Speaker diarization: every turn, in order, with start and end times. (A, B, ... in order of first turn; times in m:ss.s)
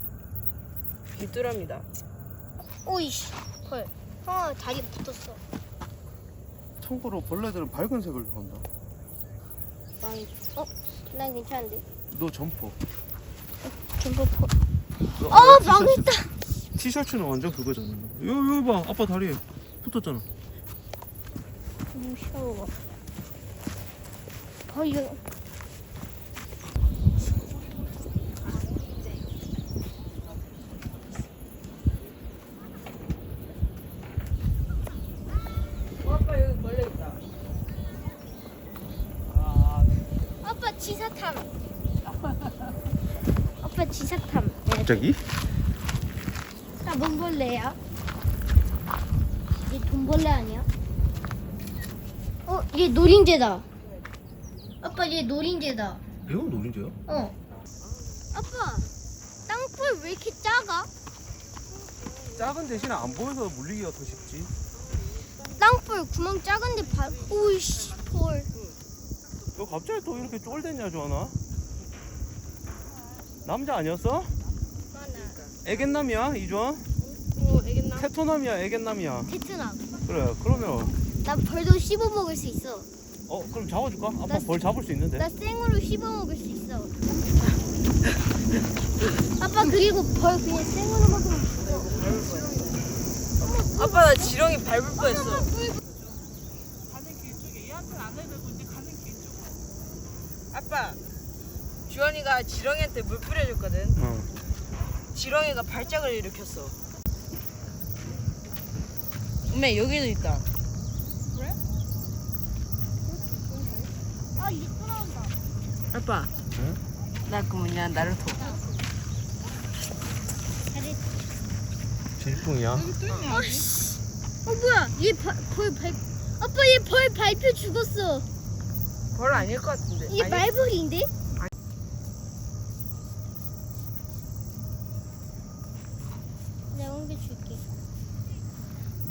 0:01.1-0:01.8 A
0:02.8-0:05.4 B
0:06.8-0:08.6 C
0:10.0-0:10.3 A
0:10.5-0:11.8 B
0:12.1-0:12.8 C
0:13.6-0:14.6 B
0:15.1-0:16.3 B
0:15.2-0:16.1 C
0:16.8-0:20.2 C
0:21.9-0:22.7 B
0:24.7-0:25.2 B
0:36.0-0:37.2 A
0:40.4-0:41.5 B
0:43.6-0:45.0 B
0:44.7-0:45.2 C
0:46.8-0:47.8 B
0:49.6-0:50.7 B
0:52.5-0:53.6 B
0:54.8-0:56.0 B
0:56.2-0:57.0 C
0:57.1-0:57.3 B
0:58.3-0:58.9 B
0:59.5-1:00.9 B
1:02.3-1:04.5 C
1:05.6-1:08.5 B
1:09.6-1:11.4 C
1:13.4-1:14.3 C
1:14.9-1:15.4 B
1:15.6-1:16.8 C
1:17.0-1:18.0 B
1:17.9-1:19.3 C
1:19.3-1:19.8 B
1:20.1-1:20.9 C
1:21.2-1:22.9 B
1:23.3-1:25.2 C
1:25.2-1:27.0 B
1:29.4-1:31.9 B
1:31.6-1:32.7 A
1:33.4-1:34.3 B
1:33.4-1:35.5 A
1:35.0-1:35.8 B
1:36.9-1:39.5 D
1:40.5-1:41.0 A
1:41.9-1:44.0 A
1:44.0-1:44.3 C
1:45.1-1:46.7 A
1:49.5-1:50.4 A
1:54.4-1:55.3 B
1:55.9-1:56.3 A
1:57.2-1:58.4 A
1:58.4-1:58.6 B
2:00.6-2:01.0 B
2:02.2-2:02.9 C
2:02.7-2:03.7 D
2:03.2-2:08.2 B
2:09.1-2:10.5 A
2:10.1-2:11.1 B
2:16.7-2:17.6 B